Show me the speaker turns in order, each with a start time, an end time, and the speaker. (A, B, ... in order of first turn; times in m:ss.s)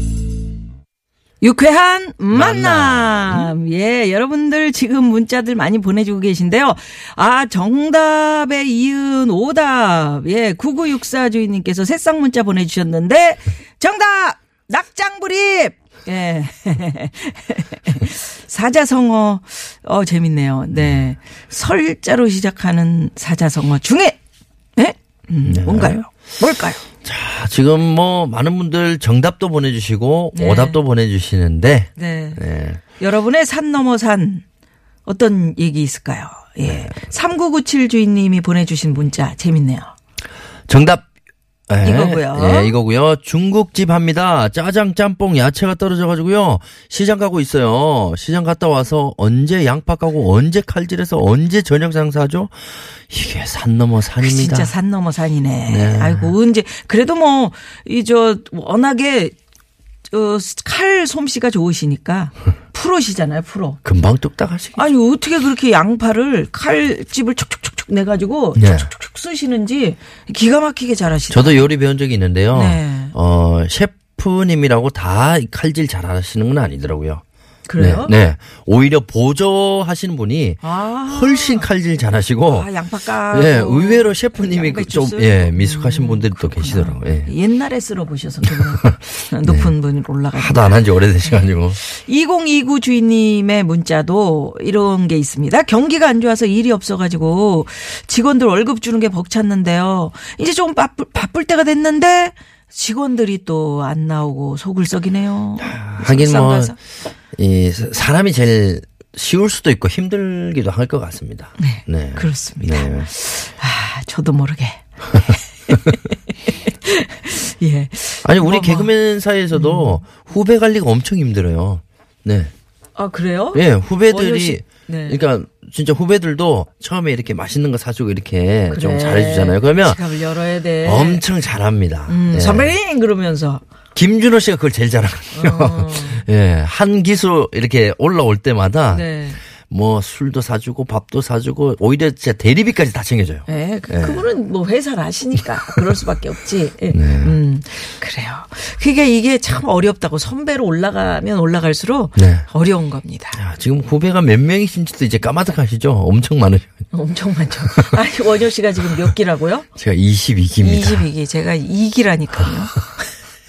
0:01.4-0:24.2 A
0:02.3-0:03.5 B
0:24.8-0:26.8 A
0:25.4-0:26.0 B
0:27.0-0:32.8 B
0:30.3-0:30.8 A
0:32.0-0:32.4 A
0:33.0-0:34.4 A
0:35.1-0:39.9 A
0:40.7-0:41.1 B
0:41.7-0:52.5 B
0:41.8-0:42.8 A
0:53.1-0:54.7 B
0:54.2-0:59.4 A
0:55.7-0:56.3 B
1:00.1-1:03.8 A
1:03.8-1:04.8 B
1:04.8-1:11.7 A
1:08.6-1:08.9 B
1:11.3-1:17.2 B
1:12.5-1:13.1 A
1:17.7-1:18.2 A
1:17.8-1:22.7 B
1:20.6-1:21.7 A
1:22.5-1:46.8 A
1:23.3-1:27.3 B
1:28.8-1:29.7 B
1:30.3-1:31.8 B
1:45.6-1:46.8 B
1:47.4-1:53.1 B
1:51.6-1:58.9 A
1:58.2-2:02.5 B
1:59.5-2:00.0 A
2:03.0-2:05.2 A
2:03.5-2:10.1 B
2:08.7-2:11.2 A
2:10.8-2:12.7 B
2:12.1-2:13.6 A
2:14.0-2:19.1 B
2:15.3-2:16.2 A
2:18.9-2:19.4 A
2:19.7-2:24.3 B
2:23.5-2:33.4 A
2:26.9-2:27.4 B
2:32.2-2:32.5 B
2:33.4-2:36.8 B
2:36.9-2:39.7 A
2:39.8-2:41.1 B
2:40.6-2:42.9 A